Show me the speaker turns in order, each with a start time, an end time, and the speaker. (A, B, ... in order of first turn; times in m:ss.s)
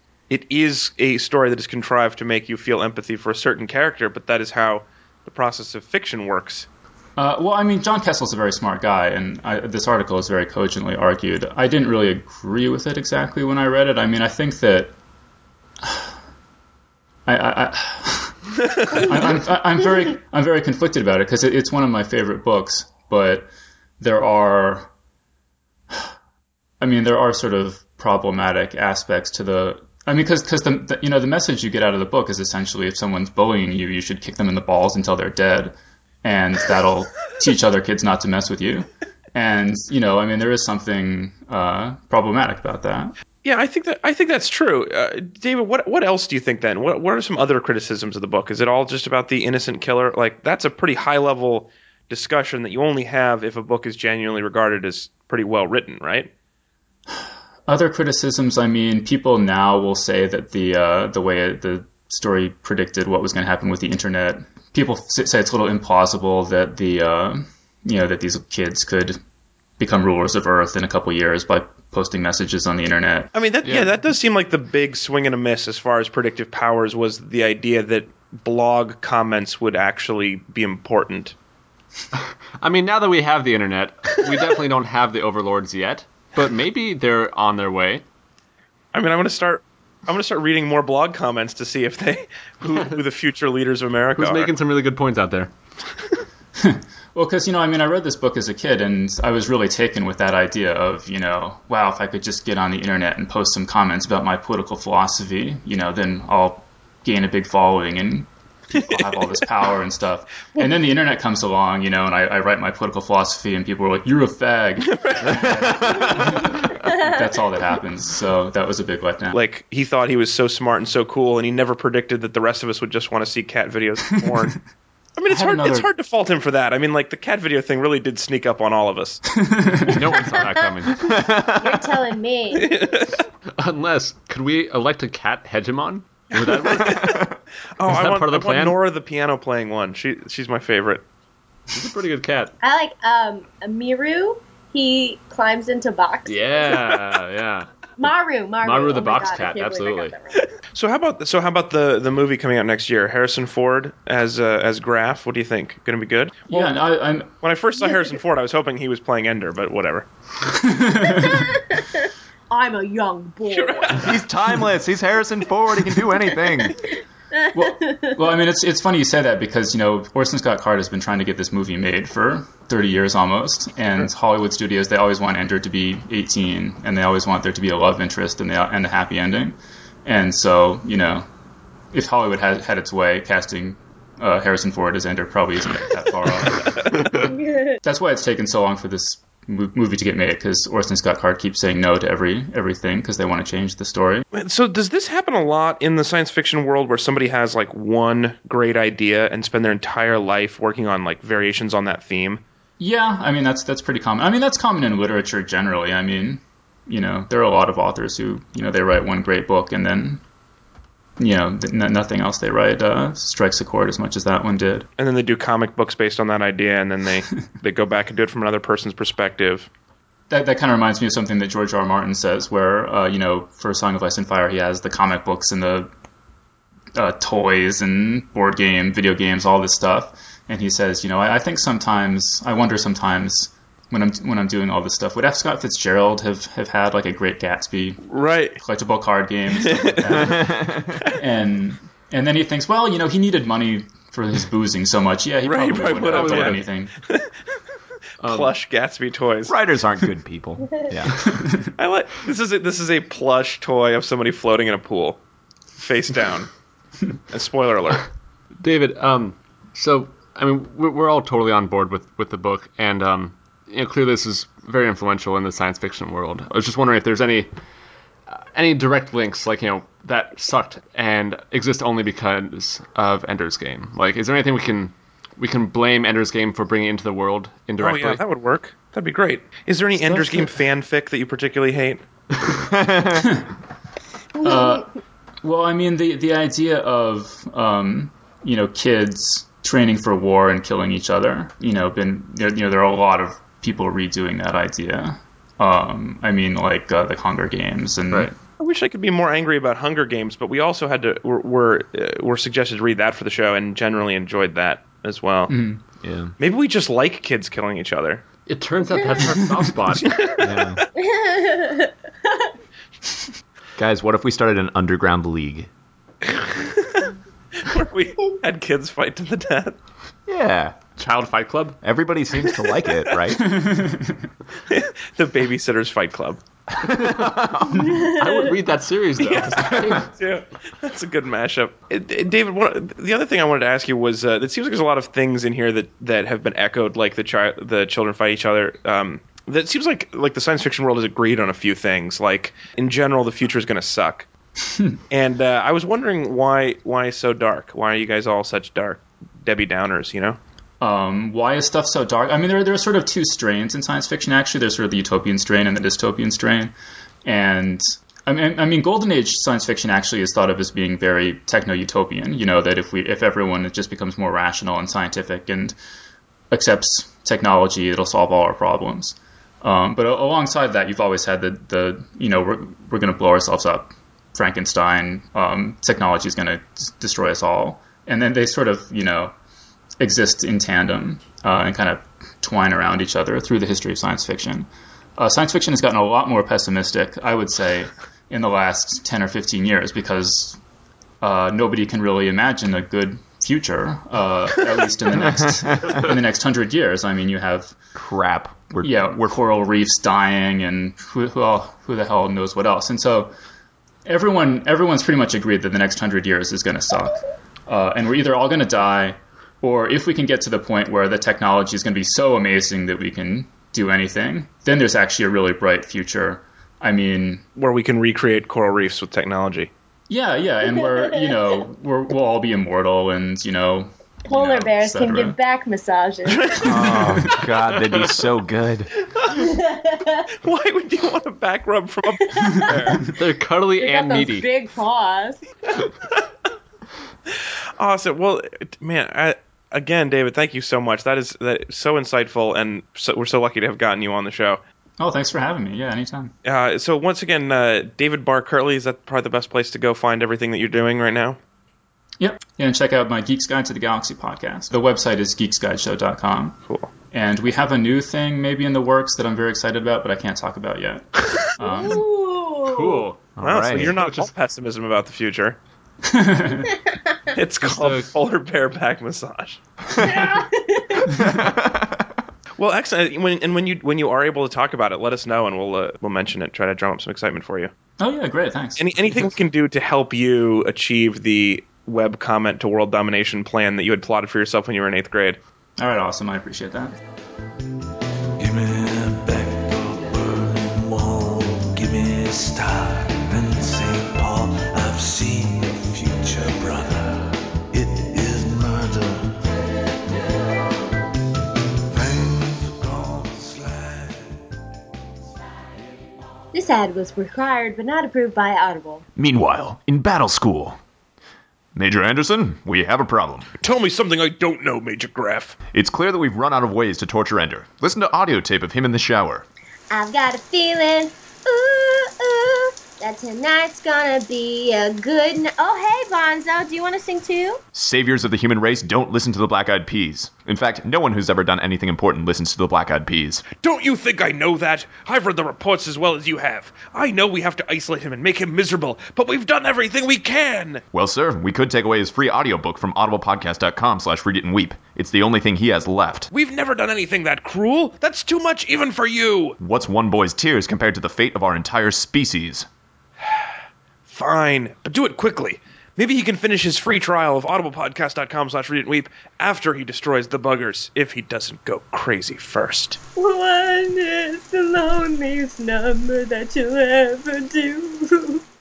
0:00.3-0:06.7 A
0:07.2-0:14.9 B
0:17.3-0:24.9 B
0:26.8-0:43.2 B
0:43.4-0:56.3 A
0:57.1-1:09.2 B
1:09.8-1:13.3 B
1:13.3-1:21.4 A
1:13.6-1:13.9 C
1:22.1-1:28.0 C
1:28.9-1:34.5 A
1:32.7-1:33.0 C
1:34.2-1:35.5 C
1:36.6-1:59.4 B
1:54.8-1:56.5 A
1:55.3-1:56.1 D
1:56.7-1:57.1 E
1:59.3-2:04.6 A
2:05.2-2:09.2 A
2:05.3-2:05.9 B
2:09.4-2:10.0 B
2:09.9-2:11.0 C
2:10.1-2:10.5 E
2:10.9-2:11.9 D
2:11.6-2:12.8 E
2:12.5-2:13.2 A
2:13.6-2:17.2 C
2:16.7-2:17.1 A
2:16.8-2:17.4 D
2:17.8-2:21.0 A
2:17.9-2:18.8 C
2:21.7-2:22.5 C
2:22.6-2:26.9 E
2:26.2-2:27.7 C
2:28.0-2:30.5 E
2:28.6-2:30.2 C
2:30.7-2:36.7 A
2:36.5-2:37.3 B
2:37.4-2:40.1 A
2:40.4-2:41.6 B
2:41.1-2:44.2 E
2:43.5-2:44.2 A
2:44.0-2:46.8 D
2:47.3-2:48.2 E
2:47.6-3:01.3 B
3:01.9-3:14.3 B
3:07.3-3:07.8 E
3:14.3-3:22.4 A
3:22.8-3:30.2 B
3:31.2-3:34.9 B
3:35.0-3:39.7 A
3:40.3-3:45.9 B
3:47.0-3:58.0 B
3:58.1-3:58.6 A
3:58.6-4:06.9 B
3:59.6-4:00.3 A
4:00.2-4:01.0 D
4:05.4-4:07.3 A
4:06.1-4:06.6 C
4:08.2-4:08.5 C
4:08.2-4:09.6 A
4:09.5-4:11.3 D
4:11.2-4:11.7 B
4:11.8-4:15.2 A
4:15.8-4:16.5 A
4:17.3-4:18.1 A
4:18.6-4:27.5 C
4:28.3-4:38.2 C
4:37.8-4:42.0 A
4:40.0-4:40.5 C
4:42.5-4:43.4 D
4:44.4-4:44.9 B
4:45.4-4:58.4 B
4:58.6-5:05.5 A
5:05.5-5:05.8 B
5:06.0-5:06.3 D
5:06.4-5:08.2 A
5:08.5-5:10.2 C
5:10.0-5:10.8 A
5:10.4-5:10.8 D
5:11.0-5:12.5 E
5:13.8-5:15.7 D
5:16.2-5:19.8 A
5:20.3-5:20.8 D
5:21.0-5:21.8 C
5:21.8-5:23.6 D
5:23.3-5:24.3 B
5:24.7-5:26.4 A
5:26.7-5:28.0 D
5:27.0-5:27.3 C
5:27.8-5:28.6 E
5:27.9-5:30.1 C
5:29.2-5:44.3 A
5:44.6-5:45.0 B
5:45.1-5:50.4 A
5:50.8-5:56.7 B
5:57.2-6:05.8 B
6:06.5-6:19.3 B
6:20.0-6:30.6 B
6:31.2-6:37.8 B
6:35.2-6:36.0 D
6:38.0-6:39.4 D
6:38.8-6:43.3 B
6:44.1-6:57.4 B
6:57.6-6:59.7 A
7:00.1-7:05.4 B
7:00.9-7:01.4 E
7:04.3-7:06.7 E
7:06.3-7:07.3 A
7:06.6-7:08.9 D
7:06.8-7:07.4 B
7:09.3-7:10.3 E
7:10.4-7:13.1 A
7:12.2-7:13.1 E
7:13.1-7:14.5 C
7:13.8-7:15.4 E
7:17.8-7:24.6 A
7:25.0-7:26.3 B
7:26.4-7:31.4 A
7:32.2-7:36.6 B
7:36.7-7:36.9 A
7:37.1-7:42.0 B
7:41.6-7:43.1 E
7:42.7-7:44.3 C
7:43.4-7:44.0 D
7:43.4-7:45.6 A
7:46.1-7:46.7 B
7:46.8-7:47.1 E
7:47.3-7:49.6 A
7:47.6-7:48.1 C
7:50.0-7:51.1 E
7:51.2-7:52.1 D
7:52.6-7:57.7 A
7:58.0-7:59.3 B
7:58.8-8:05.4 A
8:05.8-8:07.0 B
8:08.4-8:19.4 F
8:21.9-8:24.3 F
8:26.5-8:29.0 E
8:29.2-8:30.8 D
8:31.8-8:33.5 D
8:33.6-8:35.6 A
8:35.7-8:39.5 D
8:39.9-8:47.6 E
8:47.7-8:53.4 D
8:53.6-9:00.8 A
9:00.9-9:06.3 D
9:06.3-9:09.6 A
9:09.6-9:12.7 D
9:14.1-9:23.0 A
9:23.2-9:28.4 E